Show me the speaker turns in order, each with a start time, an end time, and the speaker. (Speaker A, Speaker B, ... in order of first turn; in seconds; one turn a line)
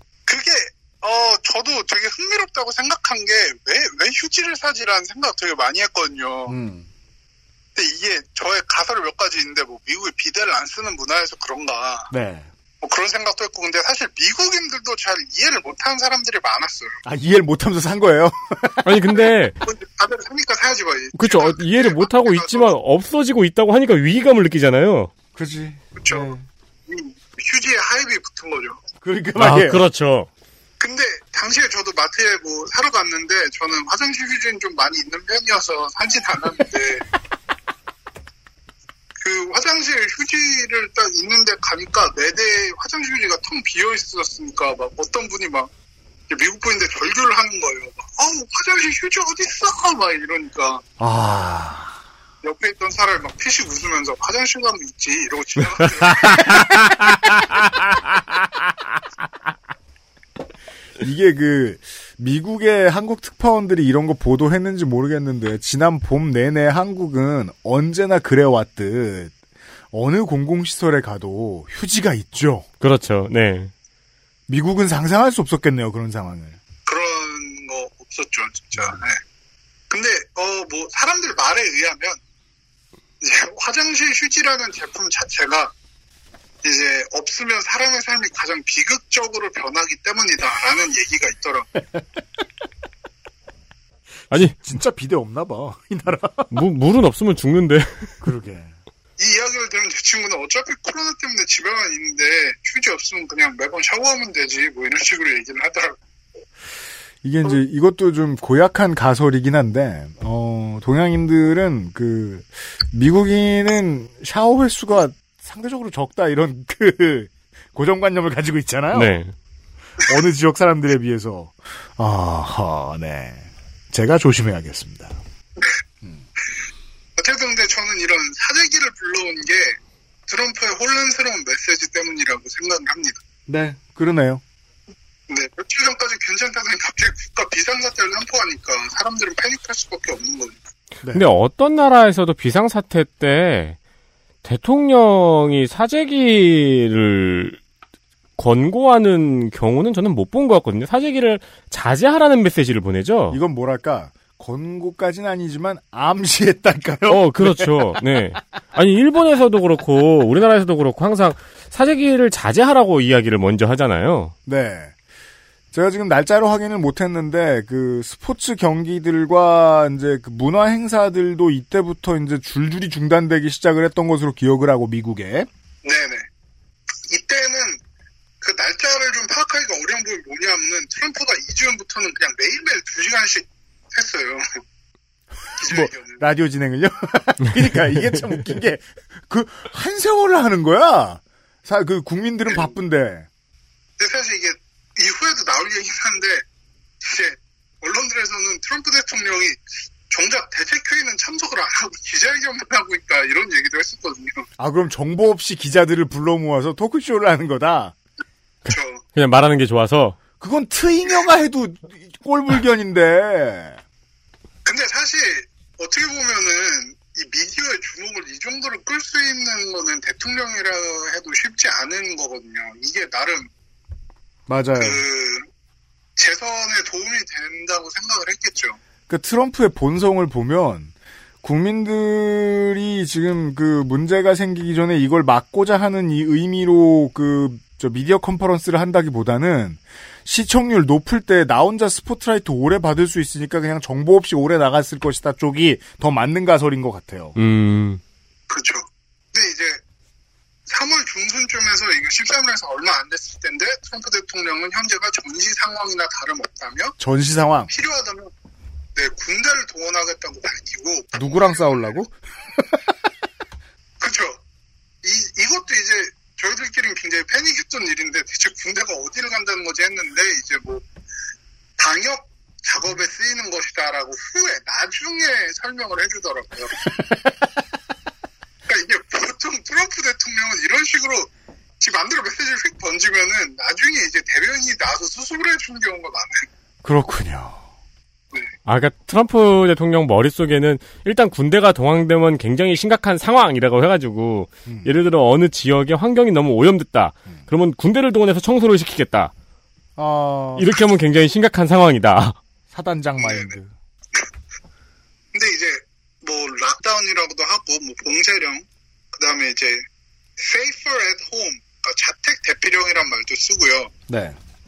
Speaker A: 0.3-6.6
Speaker B: 6.5-6.9
Speaker A: 7.8-12.1
Speaker B: 12.1-12.5
Speaker A: 12.8-17.0
Speaker B: 17.1-19.2
Speaker C: 18.8-19.6
Speaker A: 19.6-22.8
Speaker C: 21.1-25.1
Speaker B: 25.4-26.4
Speaker A: 26.0-26.3
Speaker A: 26.9-28.8
Speaker B: 29.0-29.8
Speaker C: 29.4-30.3
Speaker A: 30.8-37.0
Speaker A: 39.2-45.7
Speaker A: 46.3-50.8
Speaker B: 51.0-52.0
Speaker A: 52.4-56.6
Speaker B: 56.3-56.6
Speaker C: 56.4-57.4
Speaker B: 61.0-69.3
Speaker B: 69.9-72.7
Speaker C: 72.8-73.7
Speaker B: 74.5-76.6
Speaker A: 76.9-79.2
Speaker A: 79.9-82.2
Speaker A: 83.2-85.7
Speaker A: 86.6-91.7
Speaker B: 94.3-96.5
Speaker C: 94.3-94.6
Speaker C: 96.5-98.2
Speaker B: 98.2-98.8
Speaker A: 99.2-106.0
Speaker B: 107.2-119.1
Speaker C: 118.9-119.3
Speaker B: 120.0-125.2
Speaker A: 127.2-129.8
Speaker A: 130.3-133.2
Speaker B: 133.5-134.4
Speaker A: 135.3-140.6
Speaker B: 141.0-141.3
Speaker C: 141.1-143.8
Speaker C: 144.4-147.6
Speaker C: 148.4-153.4
Speaker B: 153.3-158.4
Speaker C: 157.1-164.3
Speaker B: 164.5-164.9
Speaker B: 165.7-175.5
Speaker A: 175.8-176.3
Speaker A: 177.1-177.8
Speaker A: 178.4-184.4
Speaker A: 185.6-186.2
Speaker B: 185.6-193.3
Speaker A: 192.5-192.8
Speaker A: 194.0-196.4
Speaker A: 197.0-204.5
Speaker B: 204.6-207.9
Speaker C: 208.7-210.2
Speaker A: 208.7-209.0
Speaker B: 210.4-213.8
Speaker A: 214.7-223.5
Speaker B: 224.5-225.0
Speaker A: 224.8-225.5
Speaker A: 226.2-228.8
Speaker B: 229.1-247.4
Speaker C: 247.4-248.0
Speaker A: 248.5-249.8
Speaker A: 250.7-257.0
Speaker B: 257.0-257.7
Speaker A: 257.7-258.3
Speaker A: 259.0-261.9
Speaker B: 261.1-262.1
Speaker A: 264.0-264.4
Speaker A: 265.0-270.9
Speaker A: 271.8-276.8
Speaker A: 278.7-286.5
Speaker B: 286.8-287.6
Speaker C: 288.7-299.3
Speaker B: 294.7-295.0
Speaker B: 300.0-300.8
Speaker C: 300.6-302.4
Speaker B: 302.7-303.7
Speaker A: 303.2-303.6
Speaker A: 305.3-309.8
Speaker A: 310.4-313.9
Speaker B: 314.1-314.4